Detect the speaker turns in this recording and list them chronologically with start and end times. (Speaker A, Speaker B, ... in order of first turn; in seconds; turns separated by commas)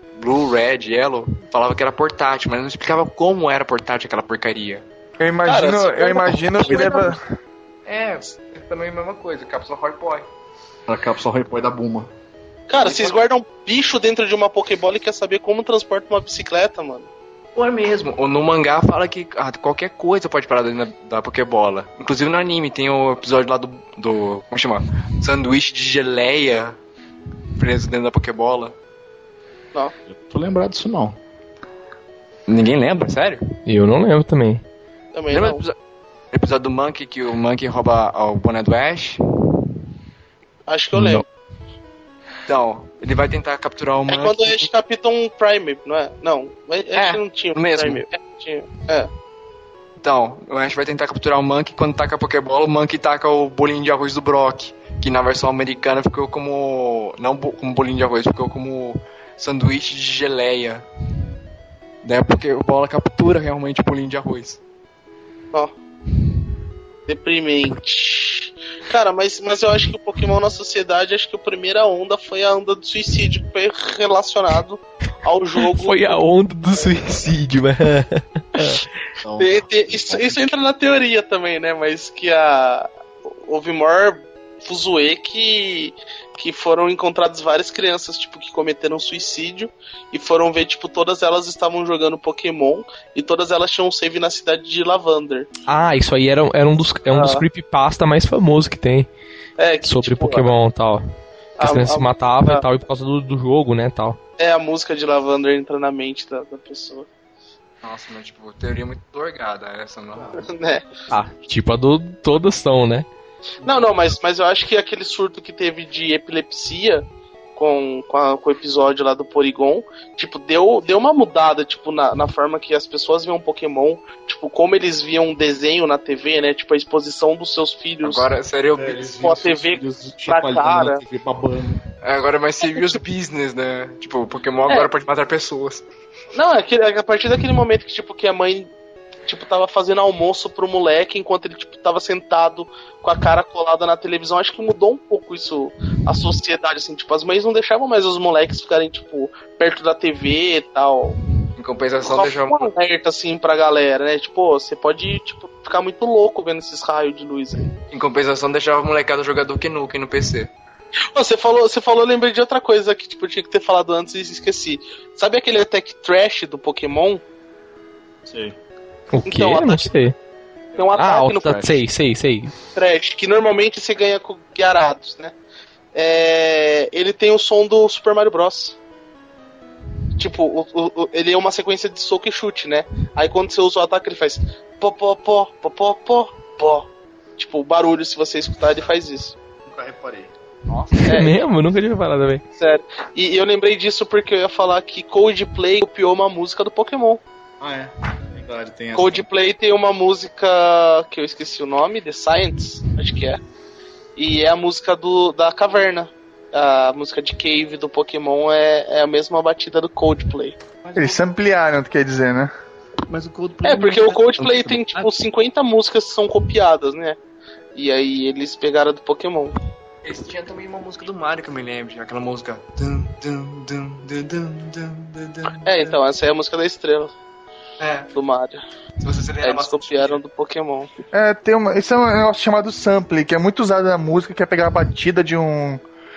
Speaker A: 0.2-4.8, Speaker B: 5.2-7.2, Speaker C: 5.5-7.1, Speaker D: 6.3-7.2, Speaker A: 7.8-10.2, Speaker D: 10.9-12.1, Speaker C: 12.7-17.1, Speaker A: 12.8-13.2, Speaker A: 17.6-26.8, Speaker A: 27.6-28.7, Speaker D: 30.1-31.2, Speaker A: 32.5-33.5, Speaker E: 33.7-34.6, Speaker C: 35.1-35.6, Speaker A: 35.3-35.7, Speaker A: 36.3-39.2, Speaker C: 40.6-41.2, Speaker A: 42.5-44.7, Speaker C: 44.1-49.1, Speaker A: 46.9-48.0, Speaker A: 50.0-60.8, Speaker A: 62.0-64.6, Speaker C: 67.0-76.2, Speaker E: 75.6-78.8, Speaker D: 79.2-80.5, Speaker C: 79.4-95.5, Speaker E: 95.7-99.1, Speaker C: 97.1-97.4, Speaker C: 99.6-100.5, Speaker E: 99.8-101.0, Speaker C: 101.6-102.6, Speaker E: 101.6-104.2, Speaker C: 104.4-107.1, Speaker A: 107.8-110.4, Speaker C: 110.3-110.9, Speaker E: 111.1-113.1, Speaker C: 113.6-128.3, Speaker A: 128.0-129.3, Speaker D: 128.8-131.8, Speaker C: 129.2-131.0, Speaker A: 132.0-135.8, Speaker C: 136.3-138.7, Speaker C: 139.3-151.2, Speaker A: 151.6-152.7, Speaker C: 152.0-157.7, Speaker A: 157.9-160.5, Speaker C: 161.1-167.2, Speaker D: 168.2-168.6, Speaker E: 169.1-170.2, Speaker C: 169.2-169.9, Speaker C: 170.8-171.7, Speaker E: 170.9-172.5, Speaker C: 172.7-175.4, Speaker C: 175.9-178.8, Speaker C: 180.2-189.4, Speaker D: 189.6-191.3, Speaker E: 191.1-192.4, Speaker C: 191.1-191.4, Speaker C: 192.6-197.2, Speaker D: 197.6-199.3, Speaker C: 198.9-203.4, Speaker C: 204.2-210.6, Speaker D: 210.8-211.2, Speaker B: 210.9-212.5, Speaker D: 213.1-215.1, Speaker C: 213.6-217.2, Speaker C: 217.7-219.6, Speaker A: 220.0-225.9, Speaker C: 225.6-227.1, Speaker A: 227.8-228.1, Speaker C: 228.1-228.6, Speaker A: 229.0-230.2, Speaker C: 229.4-230.9, Speaker B: 231.1-235.8